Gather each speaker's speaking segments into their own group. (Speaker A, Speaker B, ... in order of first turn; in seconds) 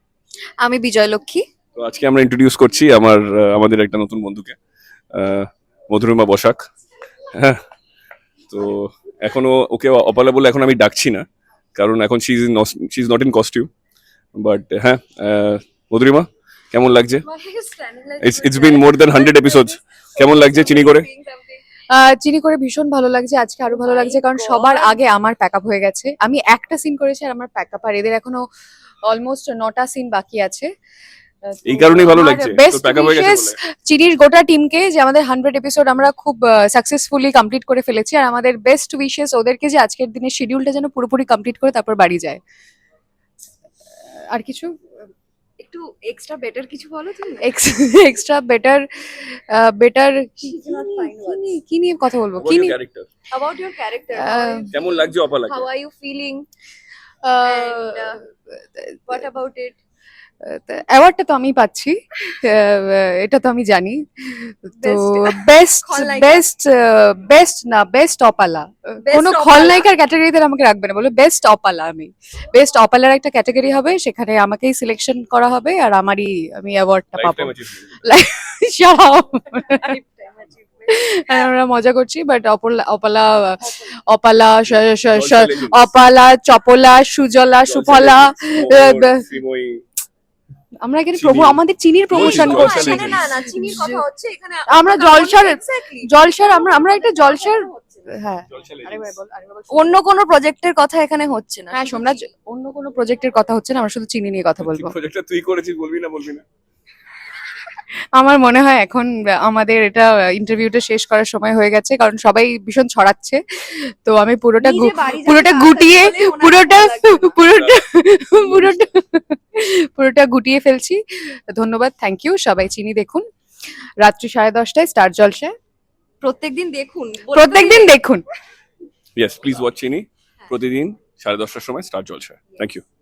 Speaker A: 0.6-1.4, 21.9-28.4, 29.1-30.7, 31.4-42.4, 44.2-44.7, 47.4-52.8, 54.1-54.7, 57.2-58.2, 60.4-80.0, 80.9-89.3, 90.8-94.0, 94.7-100.0, 101.7-104.9, 108.2-123.2, 124.0-125.5, 127.3-128.2
Speaker B: 1.8-4.5, 5.1-6.6, 7.3-7.6, 8.5-13.7, 14.3-17.2, 18.2-21.1, 31.6-33.6, 52.4-53.1, 54.7-55.6, 77.1-78.0, 84.7-85.9, 87.6-89.8, 91.1-93.2, 98.5-99.1, 104.6-106.4, 117.5-117.8, 129.2-132.8
Speaker C: 17.2-21.6, 23.7-25.0, 45.6-47.5, 50.4-51.6, 53.3-56.5, 57.4-58.2, 59.1-59.8, 64.8-66.5, 69.0-69.9, 79.7-81.5, 92.2-98.2, 99.7-102.2, 114.6-117.4, 126.2-128.0